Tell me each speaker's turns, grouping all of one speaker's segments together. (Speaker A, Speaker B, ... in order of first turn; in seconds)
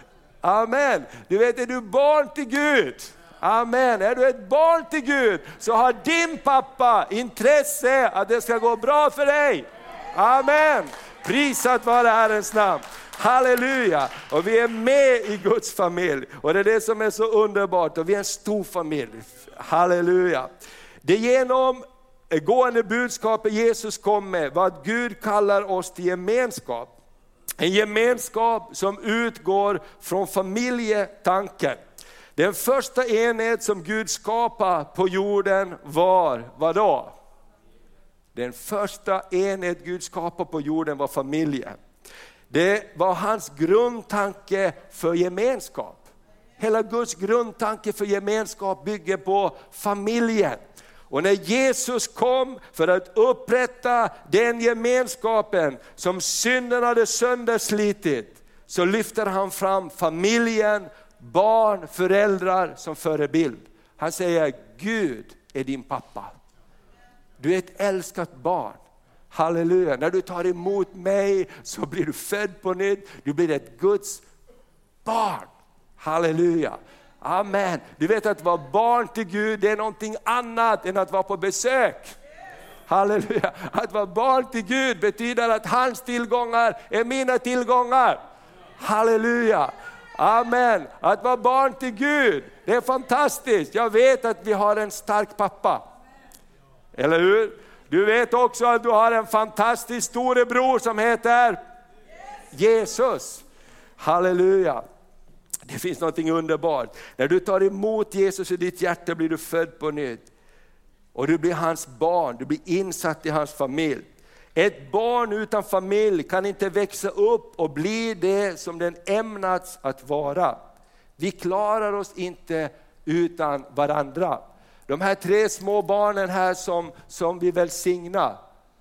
Speaker A: 0.4-20.5, 21.0-26.9, 27.6-31.8, 32.4-37.1, 38.3-41.8, 42.5-46.0, 46.6-66.3, 67.4-68.8, 69.3-74.2, 75.0-82.1, 82.9-88.2, 88.8-95.8, 96.9-101.6, 102.5-103.4, 104.0-104.8, 105.7-110.3, 111.1-114.0, 114.5-120.6, 121.2-128.4